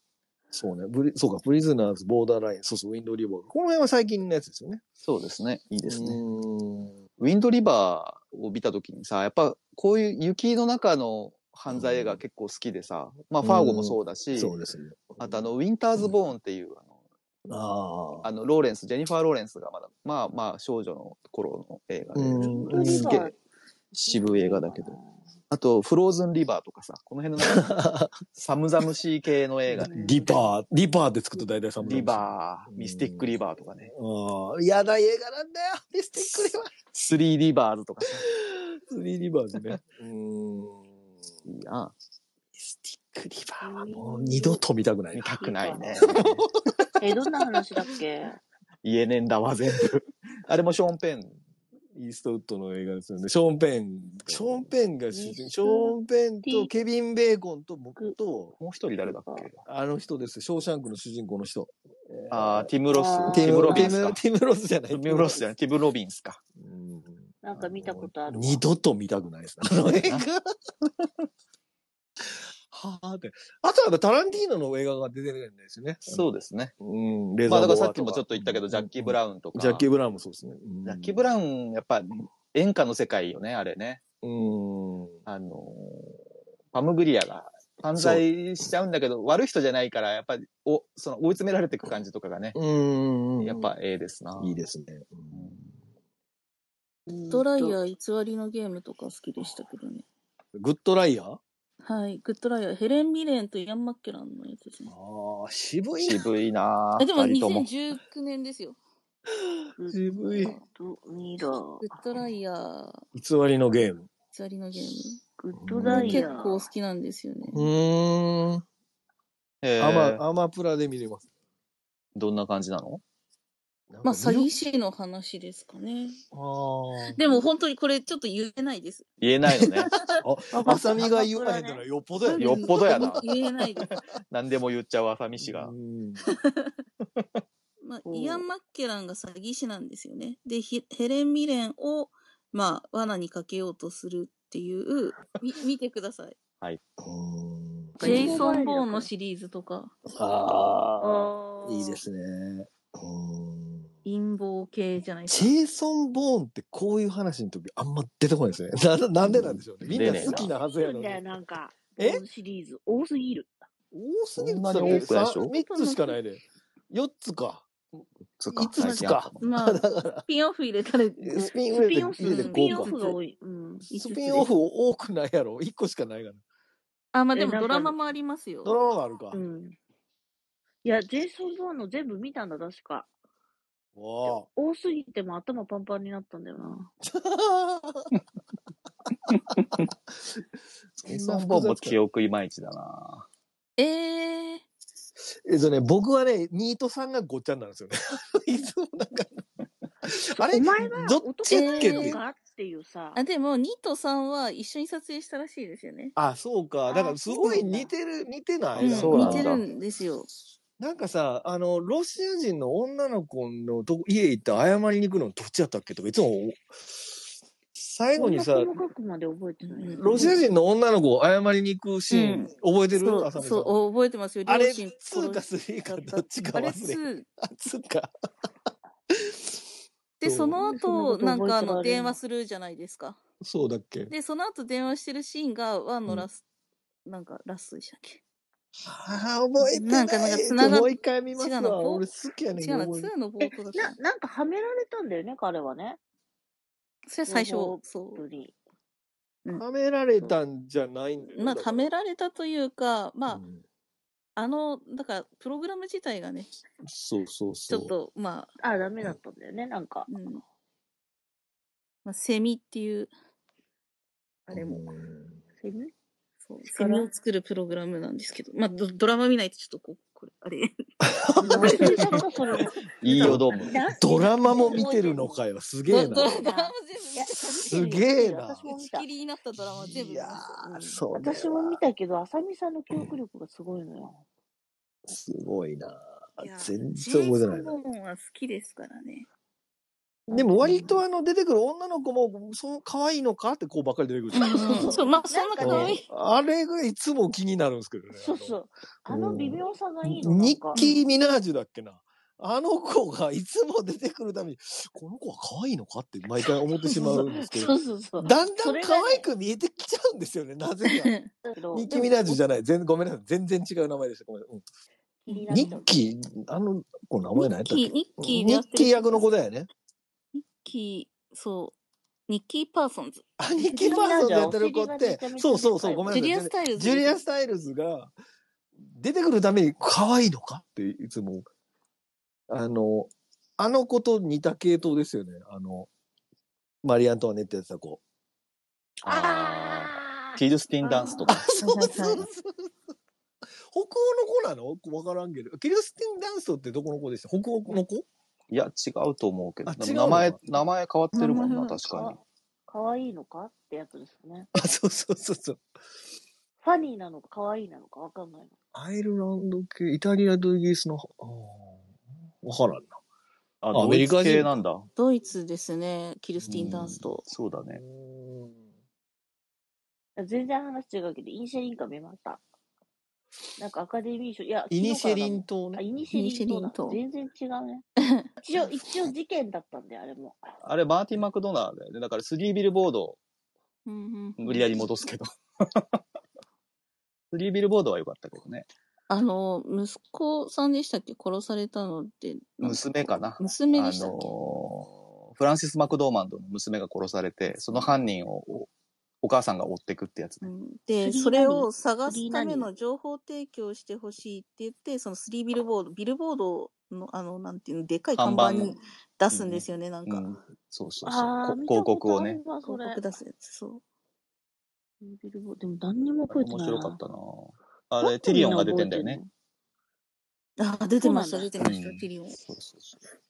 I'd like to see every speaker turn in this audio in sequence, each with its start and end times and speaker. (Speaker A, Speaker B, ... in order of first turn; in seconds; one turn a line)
Speaker A: 0.5-4.8
Speaker B: 5.0-6.2
Speaker A: 5.9-7.0
Speaker B: 7.2-14.5
Speaker A: 11.7-12.2
Speaker A: 13.4-15.4
Speaker B: 15.2-16.9
Speaker A: 17.5-18.3
Speaker B: 18.2-23.3
Speaker A: 22.1-23.2
Speaker C: 22.4-23.3
Speaker B: 23.9-24.9
Speaker C: 24.0-25.2
Speaker B: 25.5-27.7
Speaker A: 27.4-28.2
Speaker B: 28.3-30.4
Speaker A: 29.7-33.3
Speaker C: 29.8-30.1
Speaker B: 31.8-33.9
Speaker A: 33.8-36.7
Speaker B: 36.3-38.2
Speaker A: 38.1-41.0
Speaker B: 41.5-41.9
Speaker A: 42.5-46.9
Speaker C: 43.6-44.6
Speaker B: 45.1-46.9
Speaker C: 45.4-46.2
Speaker C: 47.0-48.4
Speaker B: 48.8-51.4
Speaker A: 51.9-58.5
Speaker B: 54.2-54.7
Speaker C: 55.1-56.8
Speaker B: 58.6-59.6
Speaker C: 59.1-59.5
Speaker A: 59.6-65.5
Speaker B: 62.3-64.2
Speaker C: 62.9-63.9
Speaker B: 64.9-66.4
Speaker A: 66.5-70.5
Speaker C: 67.4-68.6
Speaker B: 70.8-71.1
Speaker A: 72.2-76.2
Speaker B: 76.1-76.7
Speaker A: 76.8-81.2
Speaker B: 77.5-79.8
Speaker B: 80.8-84.0
Speaker A: 84.2-85.2
Speaker B: 85.3-86.2
Speaker B: 86.7-92.5
Speaker A: 88.0-88.2
Speaker A: 92.5-93.7
Speaker B: 93.4-94.6
Speaker A: 94.4-95.8
Speaker B: 95.3-95.6
Speaker C: 97.1-97.8
Speaker D: 97.3-100.0
Speaker A: 100.5-101.4
Speaker D: 101.8-104.9
Speaker A: 104.9-106.2
Speaker B: 106.0-107.7
Speaker D: 107.0-108.8
Speaker A: 109.3-110.6
Speaker C: 109.8-111.9
Speaker D: 111.8-113.0
Speaker A: 113.1-114.1
Speaker D: 114.3-115.2
Speaker C: 115.4-116.7
Speaker A: 115.5-116.3
Speaker D: 115.9-117.7
Speaker A: 117.5-118.6
Speaker B: 119.6-120.2
Speaker A: 119.8-121.3
Speaker B: 122.1-123.0
Speaker A: 123.9-124.5
Speaker D: 124.0-126.2
Speaker A: 126.3-127.4
Speaker D: 127.0-129.1
Speaker B: 129.2-129.9
Speaker D: 129.6-130.2
Speaker A: 130.1-133.3
Speaker C: 130.5-131.8
Speaker D: 132.2-133.9
Speaker B: 132.3-133.2
Speaker B: 134.3-135.7
Speaker A: 135.4-136.3
Speaker D: 136.2-136.7
Speaker D: 137.8-146.4
Speaker C: 138.0-138.4
Speaker A: 147.0-148.3
Speaker C: 148.0-149.1
Speaker D: 148.0-149.9
Speaker A: 150.1-153.9
Speaker C: 151.0-152.0
Speaker D: 154.0-155.5
Speaker A: 155.3-161.2
Speaker B: 159.2-160.5
Speaker C: 160.1-163.6
Speaker A: 161.9-162.2
Speaker A: 163.9-168.0
Speaker B: 164.3-165.5
Speaker D: 164.8-166.2
Speaker B: 168.4-169.4
Speaker D: 168.5-171.5
Speaker A: 168.7-170.3
Speaker A: 171.2-172.9
Speaker C: 171.7-173.9
Speaker D: 172.2-173.2
Speaker D: 173.9-174.5
Speaker A: 173.9-176.4
Speaker D: 177.1-178.7
Speaker C: 177.3-178.0
Speaker A: 178.6-179.4
Speaker C: 179.3-179.8
Speaker C: 180.8-183.1
Speaker A: 183.9-184.5
Speaker C: 184.5-186.9
Speaker A: 187.0-188.2
Speaker A: 189.3-190.4
Speaker B: 189.6-189.8
Speaker A: 190.9-192.0
Speaker B: 191.0-193.2
Speaker D: 193.8-194.6
Speaker A: 195.4-199.4
Speaker A: 200.0-202.2
Speaker C: 200.5-203.2
Speaker D: 201.5-202.2
Speaker D: 203.1-206.1
Speaker A: 206.2-209.6
Speaker C: 206.9-207.9
Speaker D: 208.8-210.3
Speaker B: 208.8-209.6
Speaker A: 210.8-218.8
Speaker C: 218.2-220.3
Speaker D: 219.6-220.4
Speaker A: 220.0-223.7
Speaker D: 222.1-222.5
Speaker C: 223.0-223.3
Speaker D: 223.3-227.3
Speaker A: 224.4-228.1
Speaker A: 229.1-229.6
Speaker D: 230.2-233.2
Speaker A: 230.2-230.6
Speaker C: 230.6-232.2
Speaker A: 233.4-234.1
Speaker D: 234.1-236.4
Speaker D: 237.1-238.2
Speaker A: 238.8-243.1
Speaker D: 239.6-243.9
Speaker C: 243.7-246.0
Speaker D: 247.1-248.2
Speaker C: 247.2-248.5
Speaker A: 249.5-251.9
Speaker D: 251.3-253.4
Speaker A: 253.3-253.6
Speaker D: 254.3-256.5
Speaker A: 256.8-257.9
Speaker D: 257.7-258.5
Speaker C: 258.6-260.1
Speaker D: 260.1-260.4
Speaker D: 262.0-263.1
Speaker D: 264.5-264.9
Speaker A: 264.5-265.4
Speaker C: 265.6-265.9
Speaker D: 266.5-270.7
Speaker C: 266.6-267.1
Speaker A: 271.0-276.5
Speaker C: 271.4-275.4
Speaker D: 271.4-272.2
Speaker B: 273.0-273.8
Speaker D: 275.9-277.9
Speaker C: 276.4-279.1
Speaker A: 277.3-278.7
Speaker D: 278.7-280.4
Speaker A: 279.6-281.8
Speaker C: 280.5-284.2
Speaker A: 285.1-287.8
Speaker D: 286.4-289.2
Speaker C: 290.3-291.0
Speaker A: 290.3-298.6
Speaker D: 294.3-296.1
Speaker C: 294.5-296.0
Speaker C: 298.1-300.8
Speaker A: 299.1-311.1
Speaker D: 300.8-301.0
Speaker D: 306.4-307.7
Speaker C: 307.0-309.3
Speaker D: 310.9-311.3
Speaker C: 311.4-312.4
Speaker A: 311.7-314.6
Speaker C: 315.2-316.0
Speaker D: 315.3-315.8
Speaker A: 315.5-319.7
Speaker D: 317.4-319.3
Speaker D: 320.3-321.7
Speaker D: 322.3-323.9
Speaker A: 323.4-328.1
Speaker C: 323.7-326.1
Speaker D: 326.1-327.1
Speaker A: 328.8-331.5
Speaker A: 332.5-335.9
Speaker A: 336.8-338.0
Speaker B: 339.0-341.4
Speaker C: 339.1-341.2
Speaker D: 341.1-342.3
Speaker A: 341.2-342.7
Speaker A: 343.7-348.1
Speaker B: 348.5-352.1
Speaker A: 349.6-350.6
Speaker D: 351.1-351.8
Speaker C: 351.9-354.5
Speaker A: 354.5-355.6
Speaker C: 356.6-358.5
Speaker A: 358.7-361.9
Speaker A: 362.4-363.0
Speaker A: 363.6-364.5
Speaker B: 363.6-364.9
Speaker D: 364.9-367.2
Speaker B: 366.4-367.8
Speaker A: 367.6-368.7
Speaker C: 370.2-372.4
Speaker C: 373.6-377.9
Speaker A: 374.7-375.8
Speaker D: 376.1-377.0
Speaker C: 378.4-380.4
Speaker B: 380.6-383.2
Speaker D: 383.9-384.8
Speaker B: 384.4-386.0
Speaker B: 387.3-388.6
Speaker D: 389.1-394.3
Speaker B: 392.6-398.7
Speaker D: 397.6-397.9
Speaker B: 399.2-400.5
Speaker D: 400.4-410.2
Speaker C: 401.0-402.7
Speaker B: 408.1-408.8
Speaker B: 409.3-412.4
Speaker C: 411.0-413.0
Speaker D: 412.6-413.8
Speaker C: 415.0-417.0
Speaker B: 416.3-419.2
Speaker C: 418.0-419.3
Speaker D: 420.6-422.4
Speaker C: 421.0-421.5
Speaker B: 421.6-423.0